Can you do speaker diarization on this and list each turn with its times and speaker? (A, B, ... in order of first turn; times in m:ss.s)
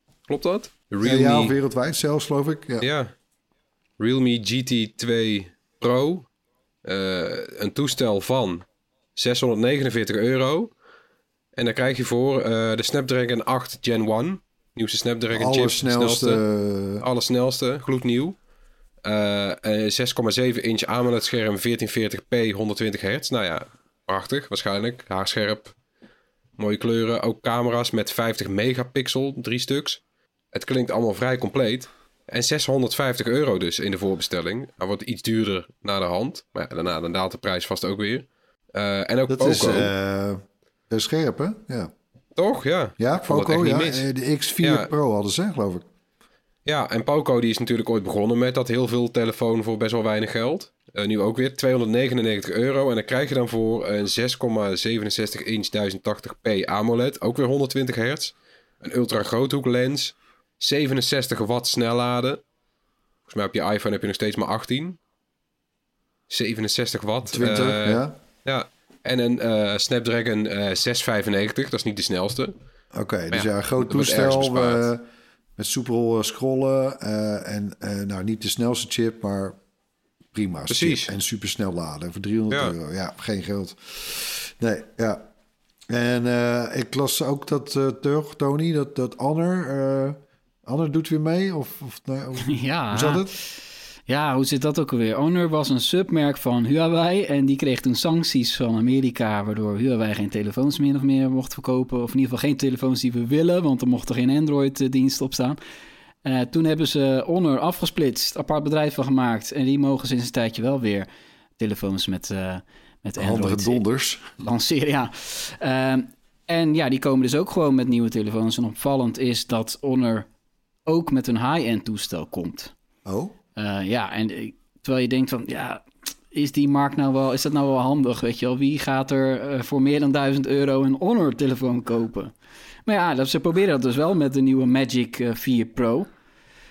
0:00.3-0:01.5 A
0:01.0-0:02.9 B
0:02.8-0:03.1 A
0:04.0-0:06.3 A
0:06.8-0:08.6 A
0:09.2-0:10.7 A
0:11.6-0:16.4 A
0:15.3-0:17.0 B
0:17.0-0:18.4 A
0:19.0-0:25.8 A
0:26.6-0:30.0 A
0:30.5-0:39.9 A
0:39.3-0:41.9 B
0:42.4-0:44.1 A
0:43.0-0:45.9 B
0:44.6-0:44.9 A
0:46.6-1:02.4 A
1:03.3-1:05.0 A
1:06.3-1:12.5 A
1:07.3-1:08.2 B
1:12.9-1:15.0 B
1:13.3-1:14.9 A
1:15.6-1:19.6 B
1:20.3-1:25.3 B
1:20.7-1:21.1 A
1:25.9-1:33.4 B
1:32.4-1:33.3 C
1:34.1-1:45.6 C
1:46.2-1:51.1 C
1:51.6-1:53.8 C
1:53.2-1:54.2 B
1:54.4-2:00.3 C
2:00.9-2:02.7 C
2:03.0-2:03.3 B
2:03.6-2:12.3 C
2:12.9-2:16.1 C